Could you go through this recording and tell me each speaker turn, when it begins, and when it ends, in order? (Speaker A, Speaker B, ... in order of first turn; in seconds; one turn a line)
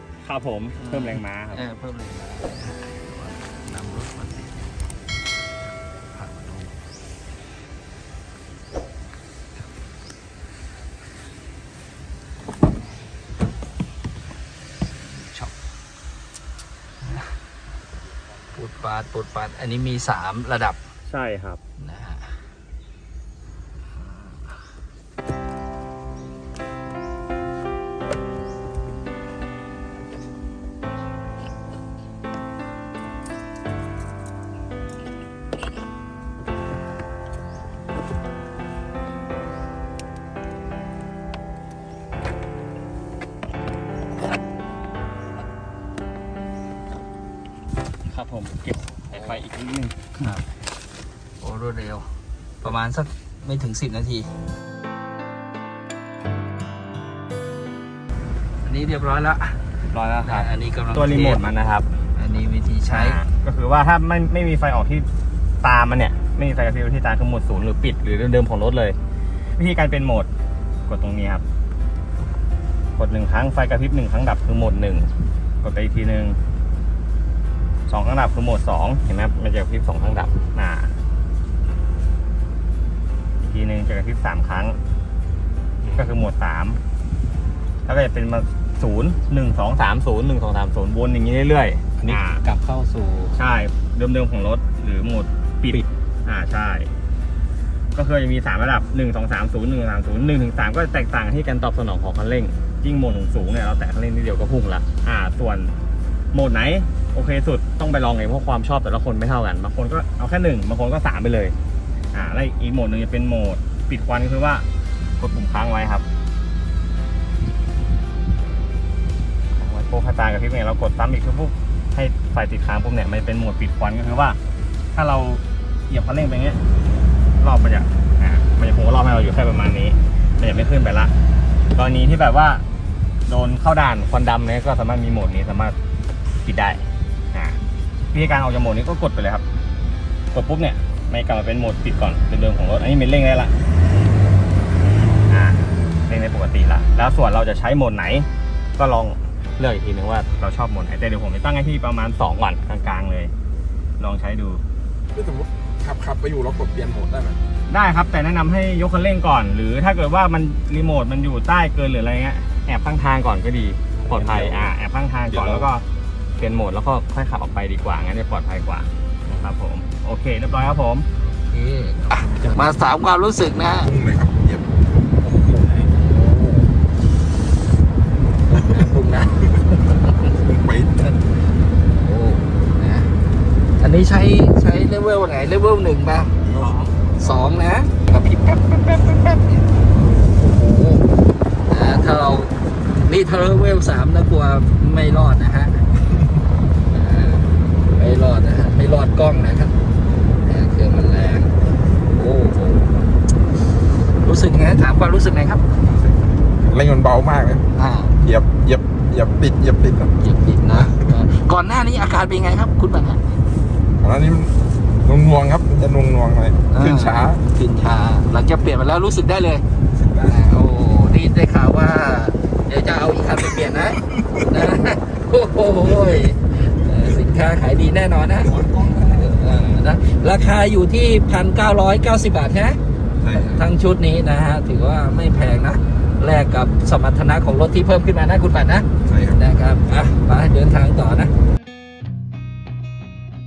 Speaker A: 0.2-1.6
Speaker B: 0.8-4.8
Speaker B: 5.6-6.8
Speaker B: 15.0-15.5
Speaker B: 17.0-17.4
Speaker B: 18.5-20.8
Speaker A: 21.1-21.6
Speaker B: 21.8-22.4
Speaker A: 48.1-50.1
Speaker B: 50.2-50.5
Speaker B: 51.4-54.3
Speaker B: 58.6-59.6
Speaker A: 59.9-61.9
Speaker B: 60.2-61.4
Speaker B: 62.1-63.2
Speaker A: 62.9-65.1
Speaker A: 65.6-69.0
Speaker A: 69.6-70.3
Speaker A: 70.9-71.4
Speaker A: 73.0-75.1
Speaker A: 75.6-76.4
Speaker A: 77.9-80.9
Speaker A: 83.4-84.8
Speaker B: 85.8-86.1
Speaker A: 85.9-86.8
Speaker A: 87.8-92.4
Speaker B: 92.0-93.3
Speaker A: 93.3-96.9
Speaker A: 97.9-105.7
Speaker A: 106.3-111.5
Speaker A: 112.1-114.7
Speaker A: 115.2-116.0
Speaker A: 119.6-124.4
Speaker A: 124.9-126.6
Speaker A: 127.4-131.1
Speaker A: 131.7-132.6
Speaker A: 133.3-135.8
Speaker A: 136.4-136.8
Speaker A: 137.3-137.6
Speaker A: 138.1-139.4
Speaker A: 140.3-143.5
Speaker A: 145.3-153.3
Speaker A: 154.0-154.6
Speaker C: 155.1-157.4
Speaker A: 157.7-165.8
Speaker C: 164.1-164.7
Speaker C: 165.3-165.7
Speaker A: 166.4-171.1
Speaker B: 171.2-173.9
Speaker C: 172.1-172.7
Speaker C: 173.7-174.9
Speaker B: 175.5-176.7
Speaker B: 178.5-180.3
Speaker C: 178.5-178.9
Speaker C: 180.4-181.1
Speaker B: 181.9-183.1
Speaker B: 183.8-189.5
Speaker C: 186.4-186.8
Speaker B: 190.3-191.1
Speaker B: 191.7-195.9
Speaker B: 196.9-199.8
Speaker B: 200.4-203.0
Speaker B: 204.2-205.7
Speaker C: 206.6-207.7
Speaker B: 207.7-208.2
Speaker C: 208.2-210.1
Speaker B: 210.2-213.3
Speaker C: 214.0-217.4
Speaker B: 216.7-219.6
Speaker C: 219.9-220.4
Speaker B: 220.2-241.3
Speaker C: 228.4-229.3
Speaker C: 233.2-233.6
Speaker C: 239.0-239.4